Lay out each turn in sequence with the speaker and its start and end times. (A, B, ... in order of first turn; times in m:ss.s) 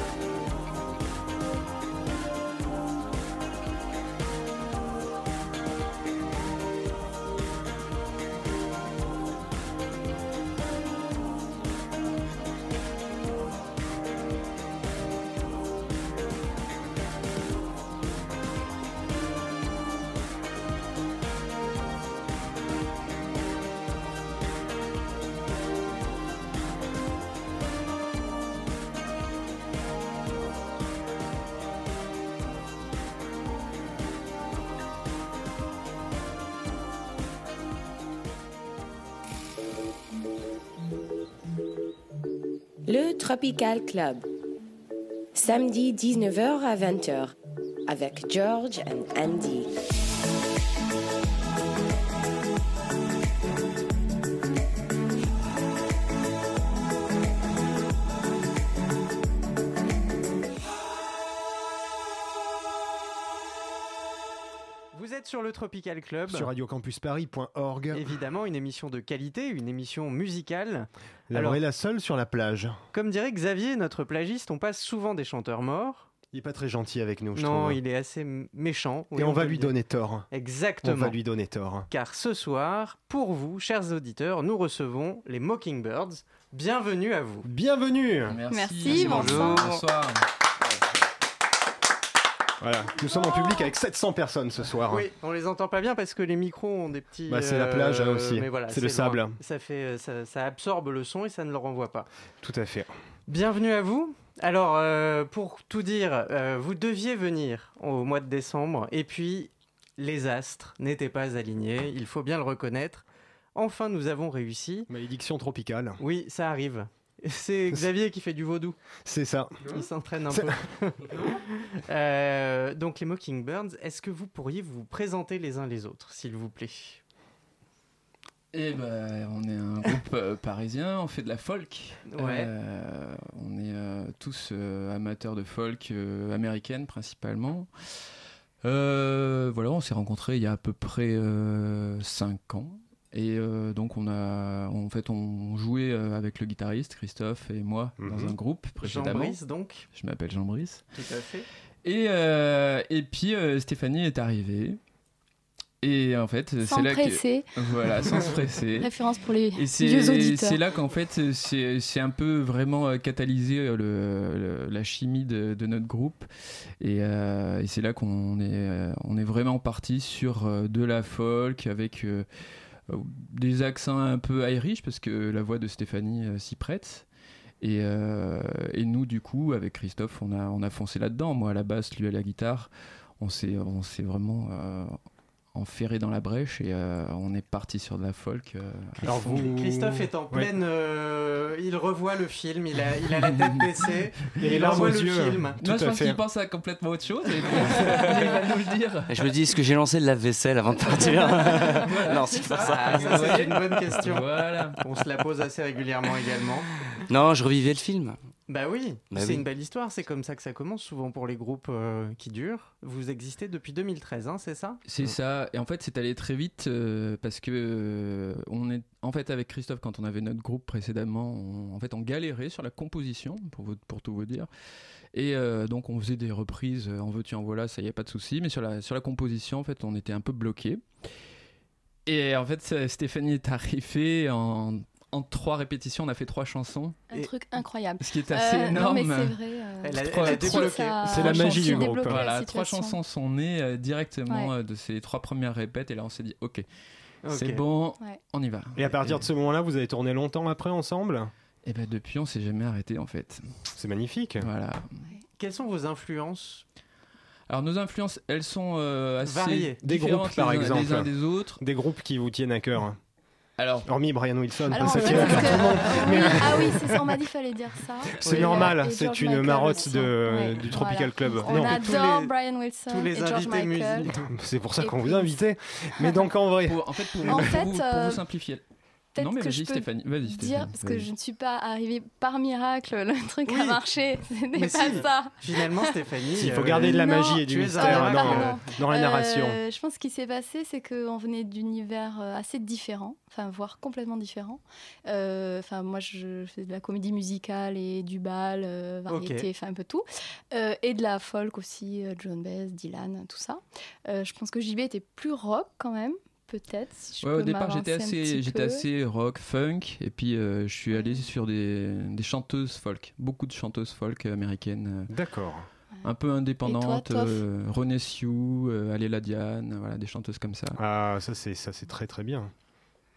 0:42.8-0:44.2 A
0:45.3-0:47.3 A
0:47.9-0:49.7 A
1:04.9-1:06.5 B
1:06.3-1:08.1 C
1:07.9-1:11.6 B
1:11.3-1:12.8 C
1:12.9-1:16.1 B
1:16.3-1:17.8 C
1:17.3-1:19.7 B
1:19.1-1:20.3 C
1:20.3-1:21.2 B
1:20.8-1:21.9 C
1:21.9-1:27.5 B
1:27.4-1:28.4 C
1:28.3-1:30.2 D
1:28.5-1:29.8 E
1:28.9-1:29.8 F
1:32.6-1:35.1 C
1:33.0-1:33.7 E
1:34.9-1:42.1 B
1:37.3-1:39.4 C
1:42.4-1:42.9 C
1:43.3-1:54.9 B
1:54.9-1:56.0 C
1:56.0-1:58.8 B
1:59.0-1:59.6 C
1:59.6-2:07.0 B
2:08.5-2:17.7 D
2:12.1-2:12.5 B
2:18.6-2:29.4 D
2:28.0-2:28.4 C
2:28.8-2:29.9 B
2:29.9-2:30.9 D
2:30.9-2:31.4 B
2:31.8-2:34.8 D
2:35.8-2:38.9 D
2:36.6-2:37.5 E
2:38.8-2:40.6 E
2:39.5-2:46.3 D
2:46.8-2:52.3 D
2:52.9-2:57.1 D
2:57.6-3:05.0 D
3:05.5-3:09.4 D
3:09.0-3:15.6 B
3:09.0-3:10.5 C
3:14.4-3:16.2 C
3:14.6-3:14.9 D
3:15.6-3:19.4 D
3:19.1-3:23.5 F
3:20.8-3:24.8 D
3:22.4-3:26.7 B
3:27.1-3:28.2 F
3:28.5-3:35.0 B
3:29.1-3:29.4 F
3:34.8-3:44.5 D
3:45.1-3:50.8 D
3:52.0-3:57.0 D
3:57.1-4:03.0 E
3:58.0-3:59.4 D
3:59.8-4:01.4 B
3:59.9-4:06.6 D
4:01.0-4:02.2 C
4:04.3-4:04.5 E
4:07.2-4:07.6 B
4:07.3-4:09.2 D
4:08.8-4:11.3 C
4:11.6-4:13.7 D
4:13.7-4:14.5 C
4:14.4-4:15.0 D
4:15.4-4:16.6 B
4:17.5-4:21.6 D
4:19.2-4:19.8 B
4:19.8-4:23.0 C
4:23.6-4:23.9 D
4:23.8-4:27.1 C
4:24.7-4:34.1 E
4:24.8-4:25.8 D
4:28.2-4:31.8 C
4:28.2-4:28.8 B
4:31.4-4:32.3 B
4:32.9-4:34.2 B
4:34.1-4:37.4 C
4:34.8-4:36.3 E
4:36.6-4:38.6 D
4:37.2-4:38.4 E
4:39.1-4:45.9 E
4:39.2-4:41.1 D
4:43.4-4:43.8 B
4:44.5-4:48.5 B
4:46.3-4:49.6 C
4:46.7-5:08.8 E
4:59.1-4:59.5 B
5:07.2-5:15.1 D
5:10.9-5:11.3 E
5:15.1-5:15.7 C
5:16.0-5:20.8 D
5:16.6-5:17.4 E
5:20.8-5:22.5 C